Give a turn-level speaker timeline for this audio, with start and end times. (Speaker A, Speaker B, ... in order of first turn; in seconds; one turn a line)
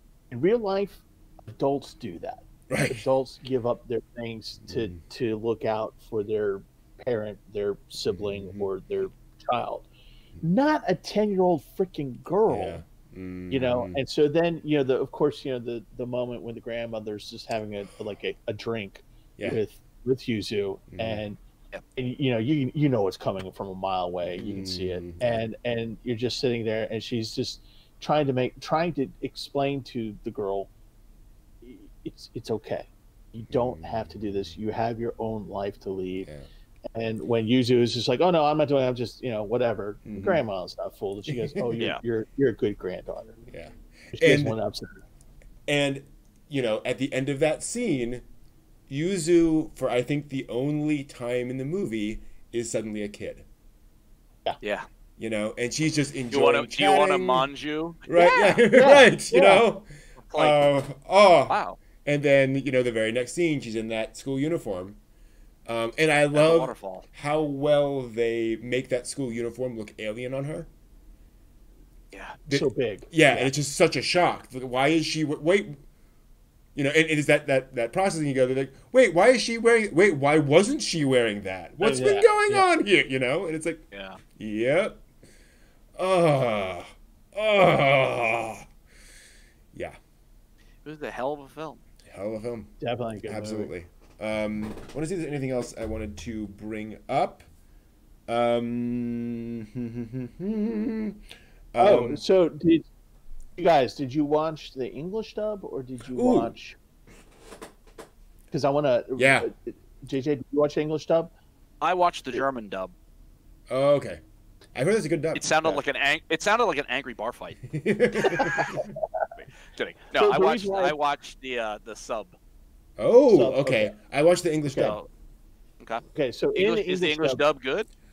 Speaker A: 0.3-9.9
Speaker B: 2.7-3.0
Speaker B: 4.7-5.0
Speaker B: 8.1-8.7
Speaker A: 10.4-12.8
Speaker B: 12.5-14.0
Speaker A: 13.5-21.4
Speaker B: 20.9-21.2
Speaker A: 22.0-30.7
Speaker B: 24.3-25.4
Speaker A: 31.6-36.3
Speaker B: 33.5-34.1
Speaker A: 36.9-43.4
Speaker B: 40.0-40.4
Speaker B: 41.3-41.8
Speaker B: 43.5-44.6
Speaker A: 44.1-45.0
Speaker B: 45.7-48.2
Speaker B: 48.9-53.5
Speaker C: 54.6-54.9
Speaker B: 55.2-57.5
Speaker C: 56.3-58.6
Speaker B: 58.1-65.0
Speaker A: 58.7-59.6
Speaker C: 60.3-60.7
Speaker C: 61.5-61.8
Speaker B: 65.7-70.7
Speaker C: 66.3-67.1
Speaker C: 72.1-72.4
Speaker B: 72.5-75.8
Speaker A: 72.5-73.5
Speaker B: 76.8-83.8
Speaker A: 81.8-82.7
Speaker C: 83.9-84.2
Speaker B: 84.4-85.0
Speaker B: 86.0-88.7
Speaker C: 90.8-91.8
Speaker B: 92.1-97.5
Speaker A: 92.8-93.7
Speaker B: 98.3-101.2
Speaker B: 101.7-102.2
Speaker A: 101.8-102.8
Speaker A: 103.6-106.8
Speaker B: 106.1-106.5
Speaker A: 108.5-111.3
Speaker B: 109.2-109.5
Speaker C: 111.8-112.9
Speaker B: 113.7-114.2
Speaker B: 114.8-115.8
Speaker C: 115.4-117.6
Speaker B: 117.7-118.9
Speaker A: 118.2-119.0
Speaker C: 119.3-122.4
Speaker A: 120.2-121.0
Speaker B: 123.0-125.0
Speaker A: 123.3-123.9
Speaker A: 124.7-125.0
Speaker C: 124.8-125.1
Speaker A: 126.1-127.4
Speaker C: 126.6-127.9